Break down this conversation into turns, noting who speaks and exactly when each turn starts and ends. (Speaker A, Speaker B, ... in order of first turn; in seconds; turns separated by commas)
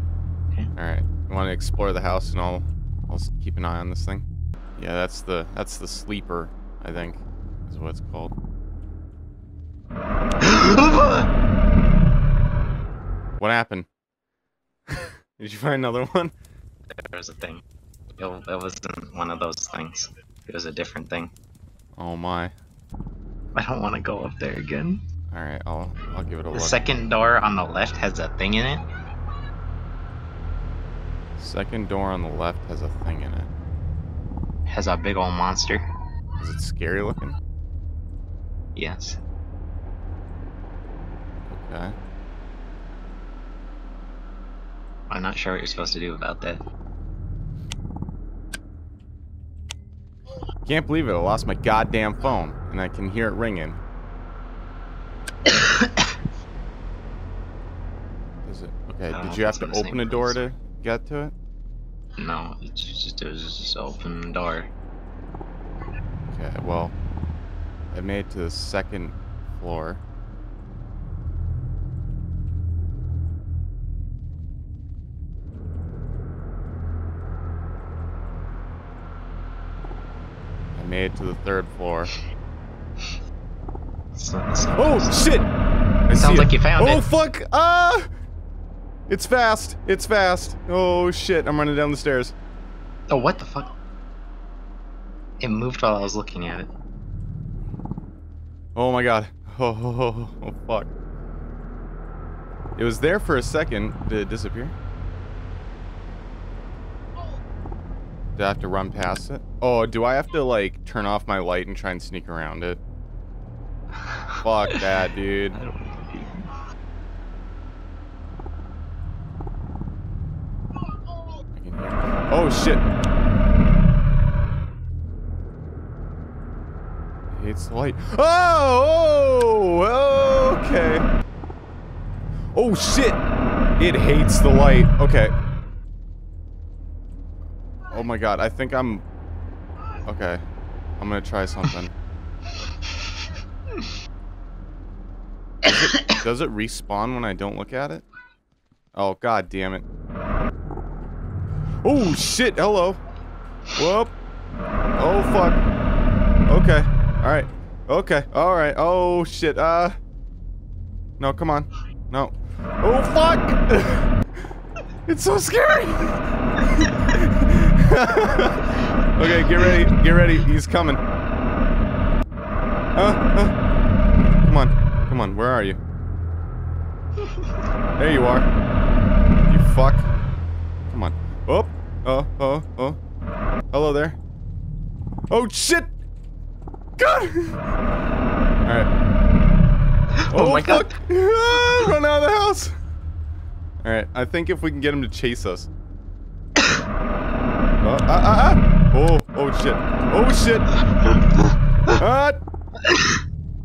Speaker A: 0.8-4.2, Speaker A: 4.8-8.3, Speaker B: 10.4-11.3, Speaker A: 13.4-13.9, Speaker A: 14.9-16.3, Speaker B: 17.0-17.6, Speaker B: 18.2-21.3, Speaker A: 22.0-22.5, Speaker B: 23.5-25.0, Speaker A: 25.3-26.9, Speaker B: 26.5-28.8, Speaker A: 31.4-33.5, Speaker B: 34.7-35.9, Speaker A: 36.4-37.4, Speaker B: 38.8-39.2, Speaker A: 41.5-41.9, Speaker B: 45.1-46.6, Speaker A: 50.6-53.8, Speaker B: 55.5-56.1, Speaker A: 58.4-61.3, Speaker B: 59.1-60.5, Speaker B: 62.2-64.7, Speaker A: 66.2-66.9, Speaker A: 67.9-70.0, Speaker A: 80.8-82.1, Speaker B: 84.1-85.2, Speaker A: 84.8-85.5, Speaker A: 86.1-88.1, Speaker B: 86.2-87.0, Speaker A: 89.1-92.3, Speaker B: 93.1-93.7, Speaker B: 95.4-96.7, Speaker A: 98.7-100.9, Speaker A: 102.8-104.7, Speaker A: 108.4-112.8, Speaker B: 113.9-114.8, Speaker A: 114.4-115.6, Speaker B: 115.5-116.5, Speaker A: 121.5-122.8, Speaker A: 127.3-131.1, Speaker A: 132.5-133.2, Speaker A: 133.8-135.3, Speaker A: 137.9-139.0, Speaker A: 140.1-140.4, Speaker A: 141.0-141.9, Speaker A: 145.6-148.0, Speaker A: 148.9-149.8, Speaker A: 151.8-153.0, Speaker A: 153.8-154.1, Speaker A: 155.0-155.6, Speaker A: 156.5-159.9, Speaker A: 161.2-164.1, Speaker A: 165.1-171.0, Speaker A: 172.9-173.5, Speaker A: 174.4-175.8, Speaker A: 178.0-178.5, Speaker A: 179.4-180.1, Speaker A: 180.9-183.0, Speaker A: 183.7-184.2, Speaker A: 185.3-185.9, Speaker A: 187.0-187.7, Speaker A: 188.6-188.9, Speaker B: 190.2-191.0, Speaker A: 190.3-192.7, Speaker A: 193.8-195.7, Speaker A: 197.8-200.8, Speaker B: 201.0-201.4, Speaker A: 201.8-202.4